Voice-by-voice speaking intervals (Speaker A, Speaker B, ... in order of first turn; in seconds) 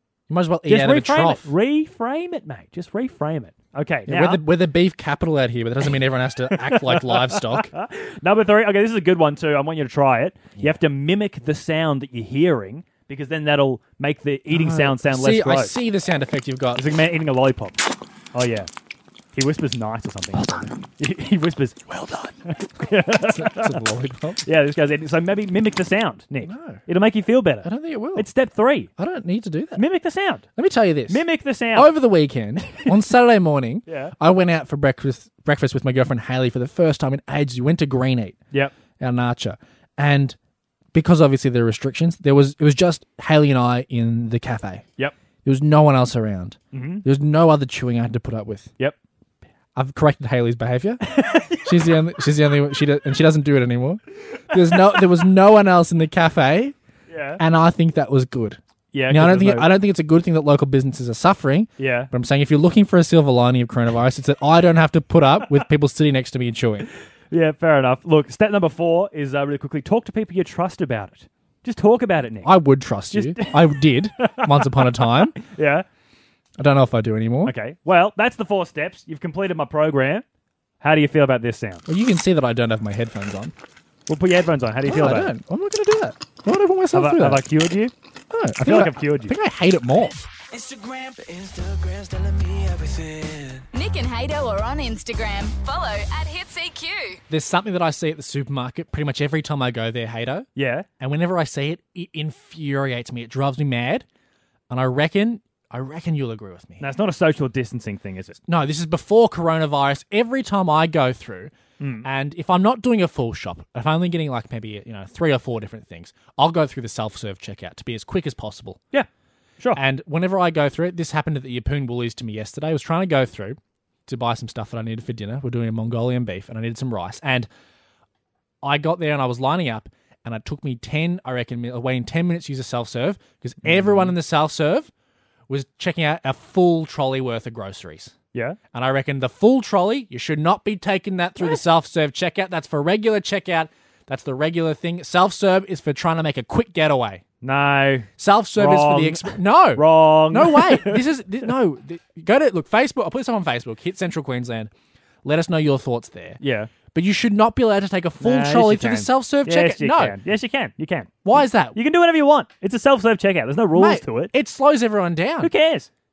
Speaker A: 0.3-1.5, 4.1-7.7, 14.5-16.9, 23.2-24.4, 26.4-26.8, 27.6-28.3, 29.0-29.8, 30.6-38.4, 39.0-40.4, 40.9-44.9, 45.5-48.7, 49.8-56.8, 57.4-66.9, 72.4-75.3, 76.6-77.5, 81.9-83.5, 84.8-87.4, 88.3-90.2, 97.3-100.5, 101.0-104.1, 104.7-106.9, 108.5-111.5, 112.0-118.8, 119.8-127.5, 128.6-134.9, 135.5-138.1, 138.7-147.2, 148.2-154.7, 155.2-156.4, 156.9-160.2, 161.2-161.8, 163.7-165.5
Speaker B: 0.7-4.5, 6.5-15.8, 16.8-17.8, 18.3-18.7, 19.3-23.8, 24.4-28.9, 29.8-30.4, 31.1-31.9, 33.9-34.1, 46.7-47.0, 51.0-51.9, 54.5-55.1, 57.1-57.4, 58.9-59.7, 61.8-62.1, 67.3-72.5, 73.1-75.9, 77.5-80.2, 80.8-81.9, 84.1-85.3, 86.9-87.9, 88.6-89.3, 100.6-100.9, 106.8-108.4, 111.8-112.1, 133.6-134.1, 147.4-151.0, 156.4-156.7, 158.2-164.3, 165.4-165.9
Speaker C: 90.5-93.7
Speaker D: 93.7-97.2